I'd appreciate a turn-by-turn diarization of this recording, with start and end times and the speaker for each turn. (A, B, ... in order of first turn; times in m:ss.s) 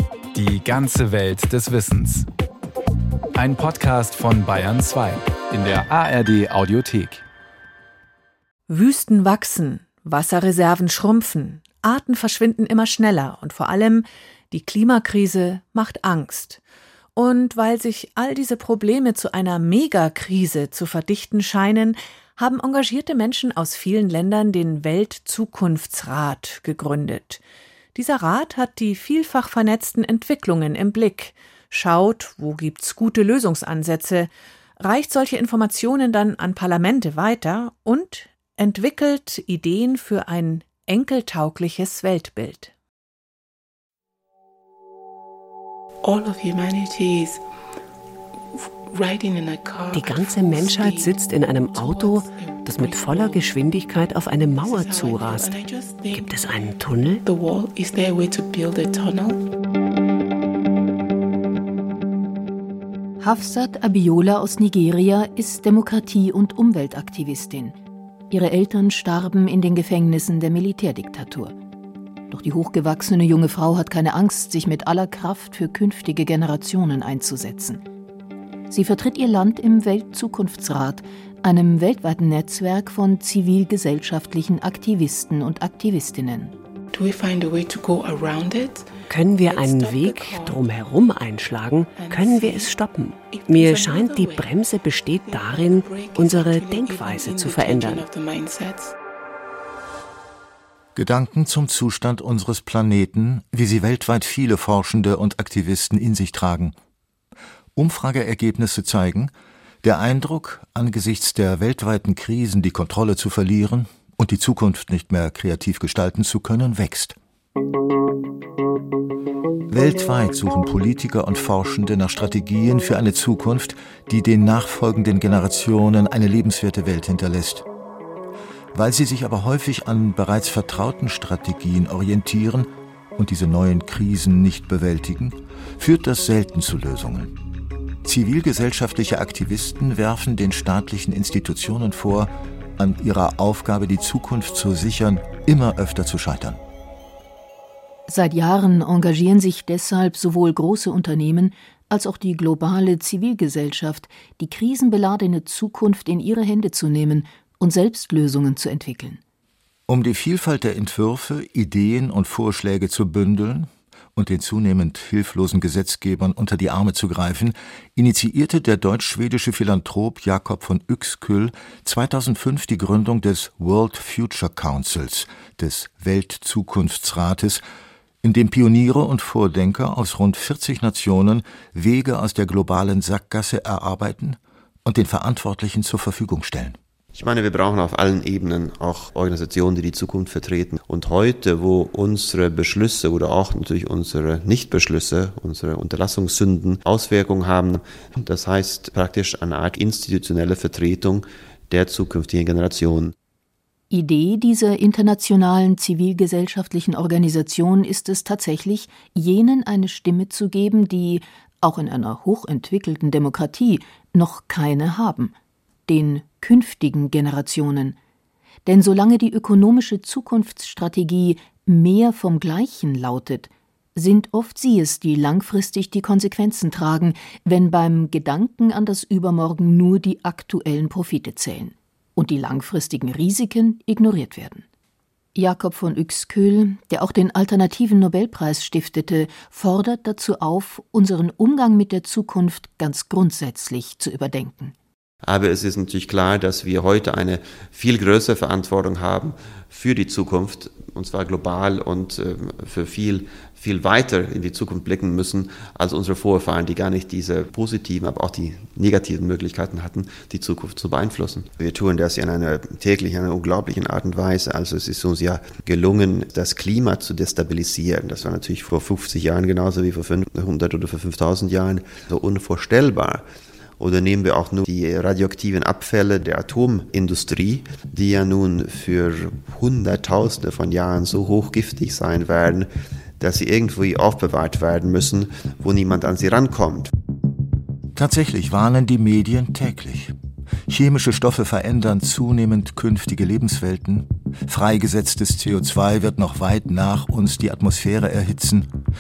0:00.3-0:02.3 A
0:03.4-0:07.2 A
0:08.7-0:16.6 B
0:17.2-0:27.4 B
0:28.0-0:42.7 B
0:46.0-0:47.4 C
0:48.5-0:53.4 C
0:49.9-0:55.6 D
0:54.5-0:56.3 C
0:56.1-0:57.2 D
0:57.2-0:59.4 C
1:03.2-1:07.8 E
1:08.3-1:11.6 E
1:12.3-1:17.8 E
1:18.7-1:26.5 E
1:26.9-1:30.6 C
1:29.1-1:38.1 D
1:32.0-1:32.8 C
1:33.3-1:34.6 C
1:35.1-1:39.0 C
1:41.0-1:46.8 F
1:47.8-1:49.3 F
1:49.8-1:57.2 F
1:59.7-2:07.7 F
2:08.7-2:17.3 F
2:18.0-2:26.6 F
2:28.1-2:39.2 E
2:39.9-2:57.6 F
2:58.2-3:06.8 F
3:07.2-3:23.1 G
3:23.9-3:35.4 E
3:35.9-3:38.0 E
3:38.7-3:54.7 E
3:55.4-4:04.8 E
4:05.2-4:33.2 G
4:33.8-4:46.9 G
4:48.0-4:50.2 F
4:50.7-4:58.7 F